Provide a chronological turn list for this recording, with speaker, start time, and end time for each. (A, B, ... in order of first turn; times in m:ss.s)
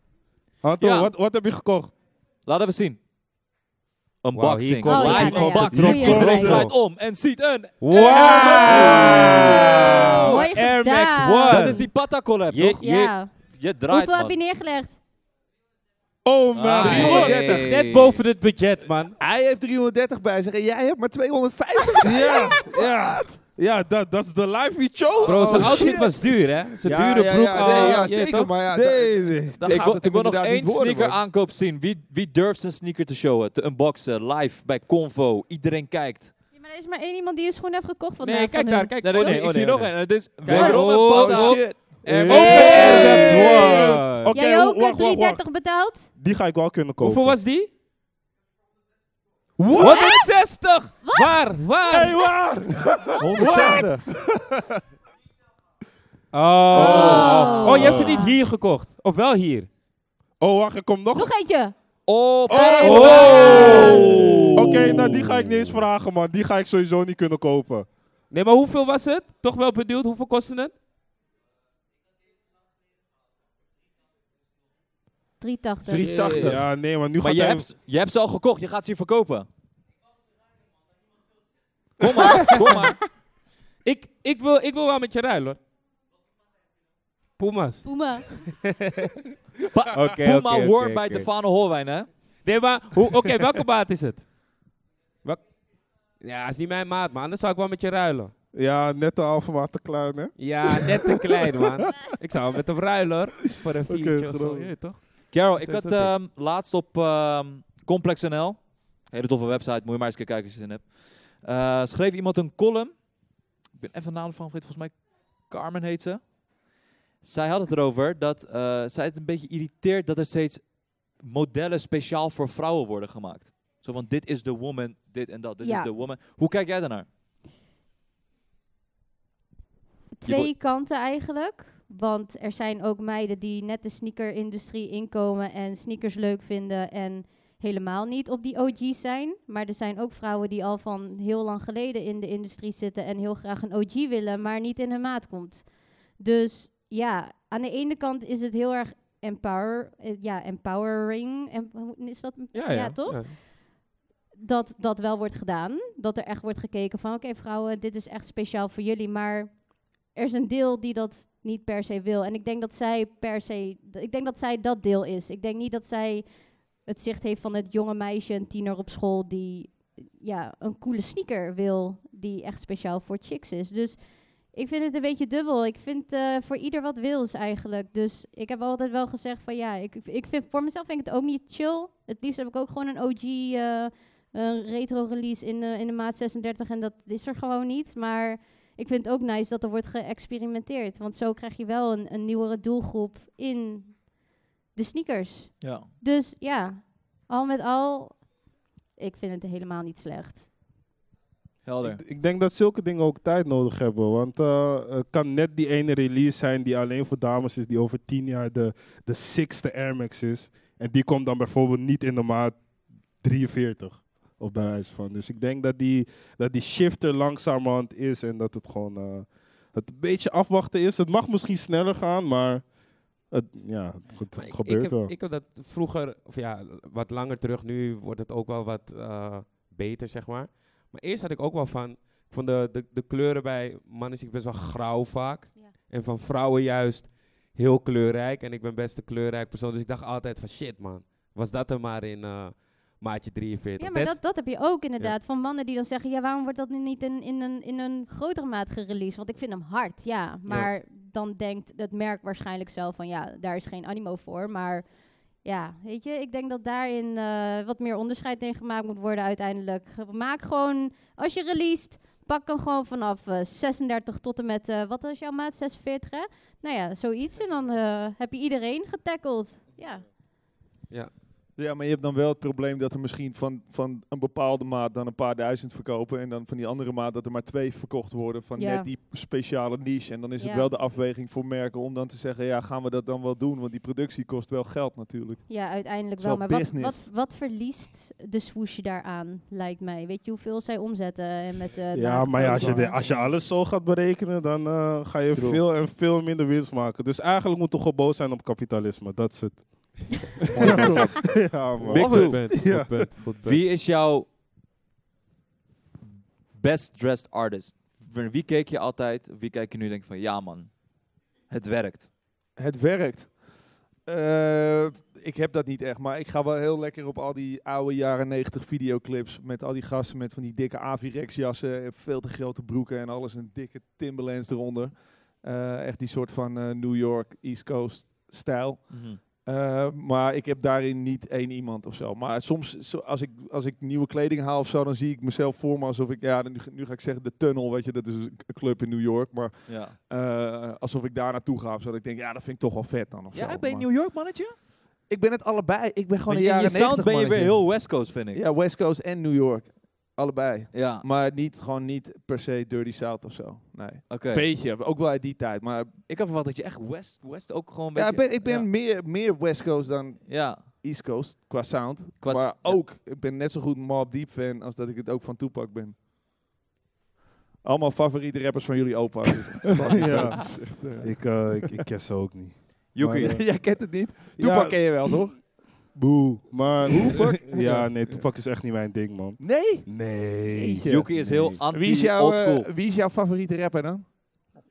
0:00.6-0:01.9 A
0:00.8-0:01.1 B
0:02.4-0:03.0 B
0:04.2-0:10.3 B
0:04.3-0:06.7 C
0:04.8-0:06.6 D
0:05.6-0:06.7 A
0:07.8-0:11.9 C
0:07.9-0:11.9 D
0:08.1-0:10.3 A
0:11.5-0:14.4 B
0:12.5-0:13.2 C
0:12.8-0:15.0 D
0:16.2-0:17.4 A
0:16.5-0:18.2 B
0:16.8-0:17.7 E
0:16.8-0:19.2 C
0:19.2-0:22.9 E
0:22.0-0:26.0 A
0:25.2-0:31.2 E
0:25.2-0:28.5 C
0:28.6-0:29.8 A
0:29.6-0:36.3 B
0:36.5-0:39.4 D
0:38.2-0:44.3 C
0:39.0-0:43.9 B
0:40.5-0:43.6 E
0:42.0-0:45.4 A
0:42.3-0:46.1 D
0:46.2-0:47.4 A
0:47.0-0:47.7 C
0:49.6-0:50.2 A
0:49.7-0:50.3 D
0:49.7-0:52.2 C
0:51.0-0:52.3 D
0:51.9-0:54.6 A
0:53.1-0:54.2 E
0:53.2-0:53.8 D
0:56.3-0:59.7 C
0:56.7-0:58.0 B
0:56.7-0:58.2 A
0:56.7-0:58.4 D
1:00.4-1:01.3 A
1:01.1-1:01.7 D
1:02.0-1:05.3 B
1:02.5-1:04.0 D
1:02.5-1:07.9 A
1:02.8-1:05.4 C
1:08.3-1:10.7 C
1:15.4-1:16.2 D
1:15.9-1:16.6 E
1:15.9-1:16.6 C
1:16.2-1:17.7 A
1:17.2-1:19.5 B
1:22.0-1:23.0 B
1:22.5-1:22.8 D
1:23.8-1:25.6 C
1:27.4-1:29.1 C
1:27.8-1:28.3 D
1:29.7-1:32.1 B
1:29.9-1:31.3 C
1:32.4-1:34.3 C
1:35.2-1:35.5 C
1:36.2-1:38.3 C
1:38.5-1:41.9 A
1:40.4-1:46.1 C
1:43.9-1:44.7 A
1:45.3-1:56.6 B
1:57.2-2:07.0 B
2:05.6-2:05.9 D
2:10.2-2:33.7 D
2:10.2-2:10.5 B
2:32.5-2:33.4 C
2:34.4-3:14.2 D
3:14.7-3:18.3 D
3:15.6-3:15.9 B
3:19.0-3:20.5 D
3:21.6-3:22.0 B
3:21.8-3:32.6 A
3:33.2-3:45.1 A
3:44.3-4:04.4 C
4:03.8-4:30.1 D
4:31.6-4:47.1 E
4:38.6-4:38.9 D
4:40.4-4:40.7 D
4:45.5-4:53.0 D
4:51.9-5:02.9 A
4:52.3-4:53.2 C
5:00.6-5:03.6 C
5:00.6-5:03.1 E
5:01.9-5:02.7 B
5:03.4-5:04.3 B
5:06.5-5:12.1 B
5:12.6-5:43.9 E
5:28.9-5:29.2 B
5:39.7-5:40.0 B
5:43.3-5:44.6 B
5:45.1-5:56.0 E
5:46.2-5:48.4 B
5:50.7-5:51.0 B
5:54.1-5:54.5 B
5:56.1-5:58.7 B
5:57.9-6:06.0 E
6:00.2-6:00.7 B
6:02.2-6:02.8 B
6:07.6-6:11.7 E
6:09.9-6:13.6 A
6:10.0-6:10.3 B
6:12.9-6:13.4 B
6:13.1-6:15.4 E
6:14.4-6:21.6 A
6:16.8-6:18.2 E
6:19.4-6:21.1 E
6:20.9-6:22.7 B
6:21.7-6:24.4 E